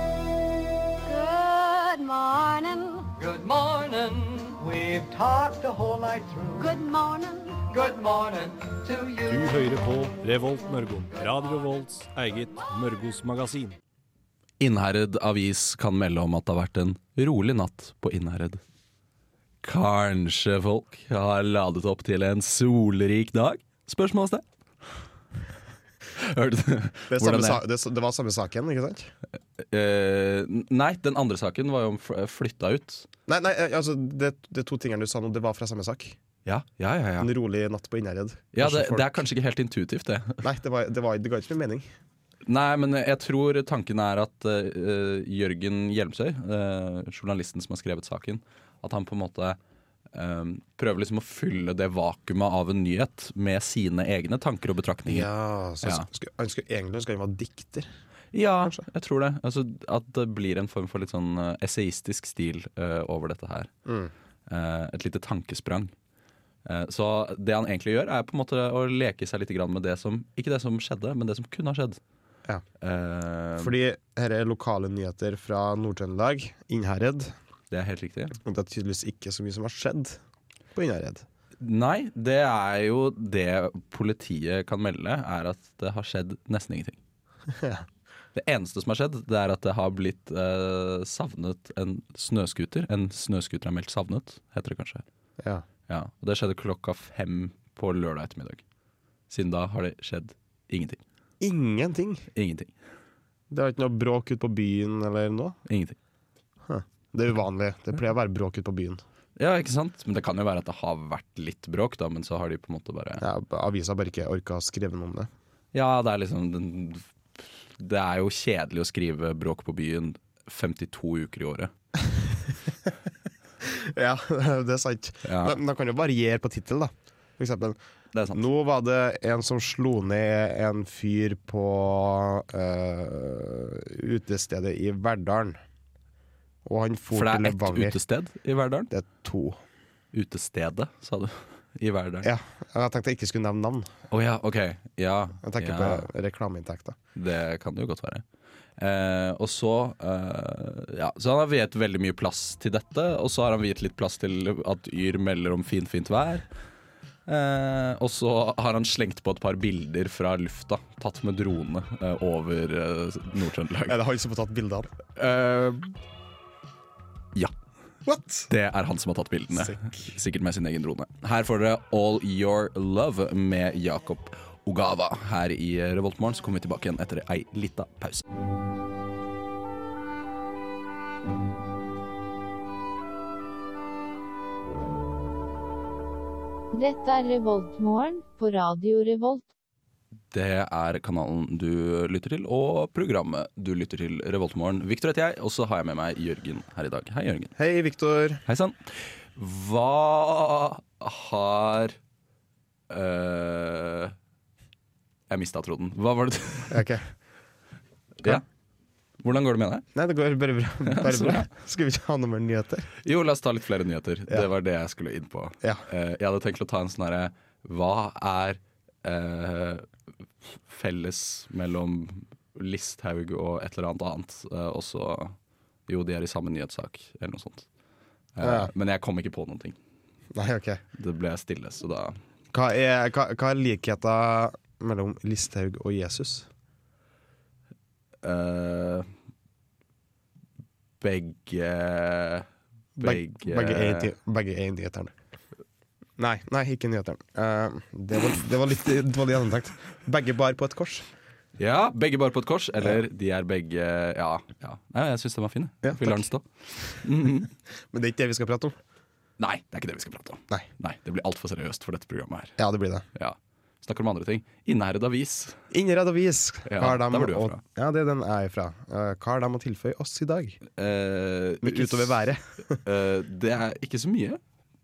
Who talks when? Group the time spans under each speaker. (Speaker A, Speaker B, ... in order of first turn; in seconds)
Speaker A: 1.1-3.1, 6.5-7.8
Speaker B: 3.2-6.7, 7.7-9.4
Speaker C: 9.2-13.8
Speaker D: 14.6-18.6, 19.6-24.4, 26.1-27.6, 29.6-33.1, 36.4-37.3, 38.5-40.4, 42.5-49.6, 50.1-55.3, 55.8-56.1, 58.3-63.7, 64.5-65.9, 66.6-72.0, 72.8-73.7, 77.7-78.4, 81.6-87.0, 88.3-95.0, 95.9-98.6, 99.3-101.0, 102.3-102.7, 105.7-106.0, 109.4-113.2, 115.7-121.7, 125.2-125.6, 128.1-128.4, 137.1-138.9, 140.1-142.3, 144.1-146.1, 147.1-148.2, 148.8-156.4, 157.2-164.0, 165.2-166.0, 168.5-178.2, 190.3-197.5, 198.4-202.0, 202.9-204.1, 205.3-206.9, 209.2-209.8, 210.8-211.5, 213.0-219.9, 220.7-225.3, 225.9-227.7, 228.3-229.8, 230.9-232.2, 238.2-239.1, 241.0-242.5, 243.0-244.1, 251.6-257.5, 259.4-262.6, 263.1-265.6, 266.6-267.6, 270.7-272.3, 272.8-274.4
Speaker E: 27.1-29.1, 33.3-36.2, 37.2-39.3, 40.4-41.9, 55.0-57.9, 63.9-64.1, 73.6-77.3, 78.4-80.2, 80.7-81.2, 87.5-87.8, 95.4-95.6, 101.4-102.2, 103.5-105.6, 106.7-109.0, 113.2-115.3, 122.1-122.5, 123.6-127.8, 128.3-135.6, 136.6-138.0, 138.9-139.6, 142.2-143.9, 145.4-147.0, 163.9-164.9, 168.1-168.5, 169.5-170.1, 197.6-198.4, 206.7-207.0, 209.9-212.9, 228.4-228.7, 230.3-230.8, 232.5-236.5, 243.0-245.1, 246.2-251.1, 255.8-256.3, 257.9-258.8, 262.6-263.0, 265.7-270.6, 271.6-272.8
Speaker F: 186.7-189.5